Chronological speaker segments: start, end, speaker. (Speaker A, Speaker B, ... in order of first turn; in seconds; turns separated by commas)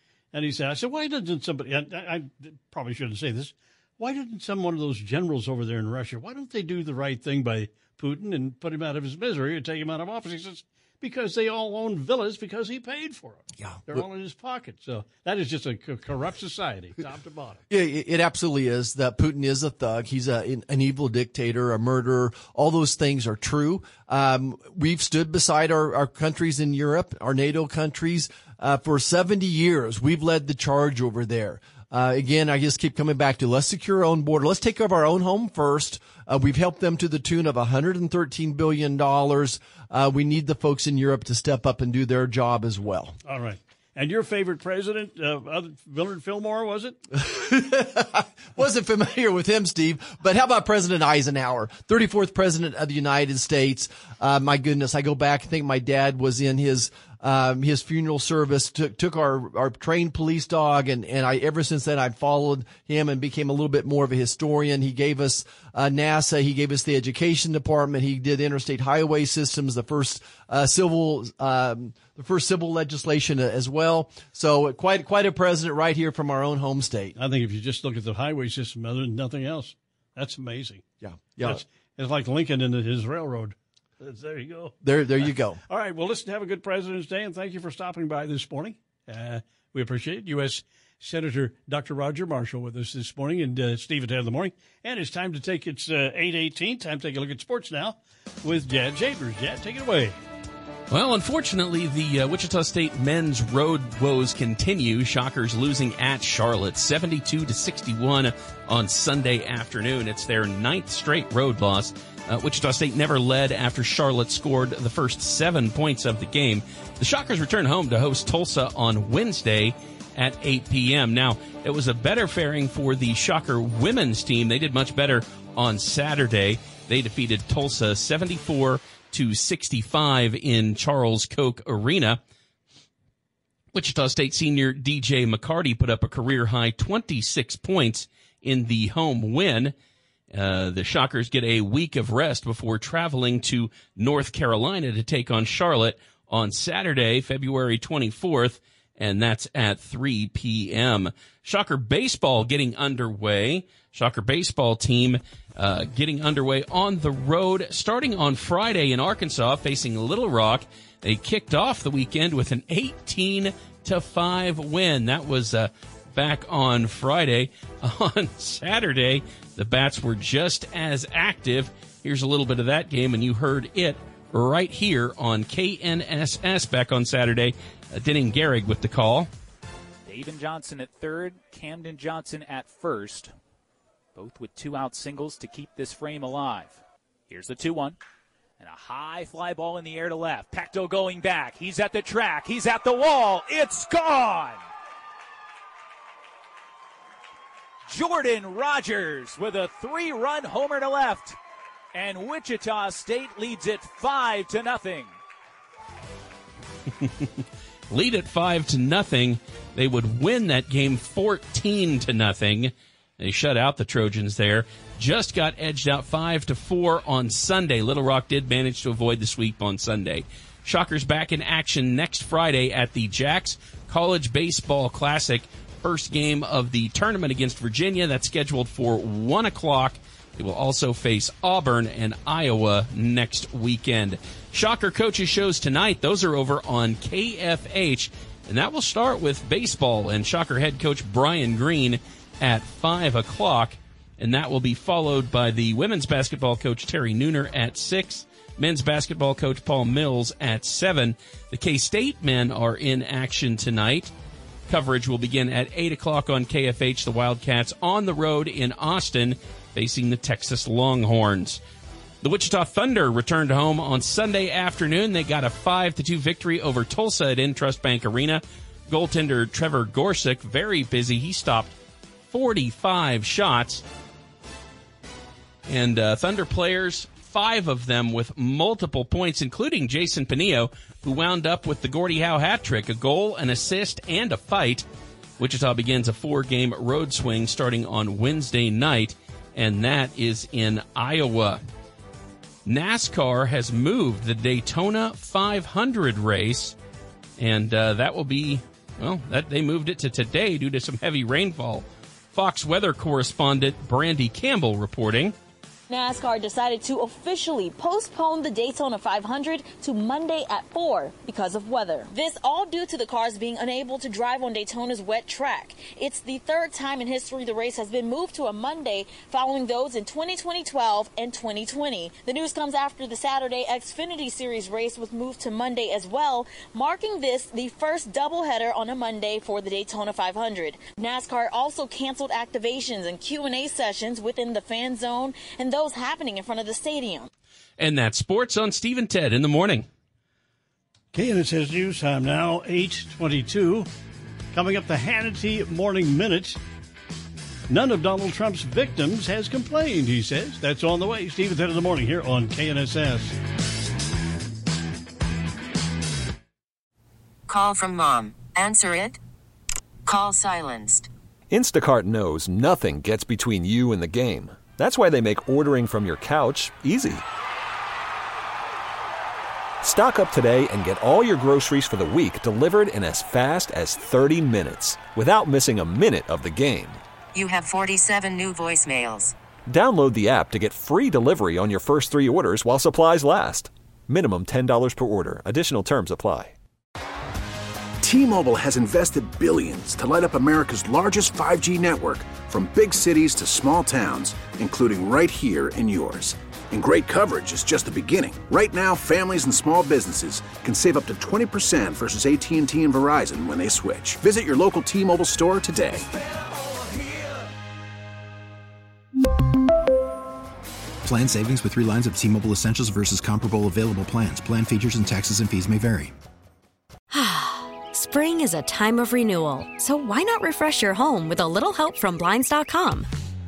Speaker A: 0.3-17.6, Speaker B: 13.6-14.0, Speaker B: 17.7-43.1, Speaker A: 43.2-47.0, Speaker B: 47.1-77.2, Speaker A: 77.2-80.8, Speaker B: 81.0-81.6, Speaker A: 81.4-84.7, Speaker B: 84.8-85.6, Speaker A: 85.7-100.2, Speaker C: 100.9-132.2, Speaker C: 133.7-139.7, Speaker C: 140.3-179.3, Speaker D: 180.1-183.3, Speaker D: 184.1-188.0, Speaker D: 188.6-194.6, Speaker D: 197.9-201.4, Speaker D: 201.9-205.2, Speaker C: 207.9-254.1, Speaker C: 254.7-261.6, Speaker C: 262.2-271.7, Speaker C: 272.3-273.8, Speaker C: 275.7-284.9, Speaker C: 285.4-291.6, Speaker C: 292.6-296.7, Speaker C: 297.4-305.3, Speaker E: 305.9-337.3, Speaker C: 337.8-339.9, Speaker A: 341.1-343.9, Speaker A: 344.5-346.6, Speaker A: 347.7-353.3, Speaker F: 357.5-359.2, Speaker F: 360.1-361.1, Speaker G: 361.5-367.2, Speaker G: 369.8-377.0, Speaker F: 377.3-379.3, Speaker G: 379.7-386.5, Speaker H: 388.0-406.1, Speaker I: 411.0-416.1, Speaker J: 417.1-423.1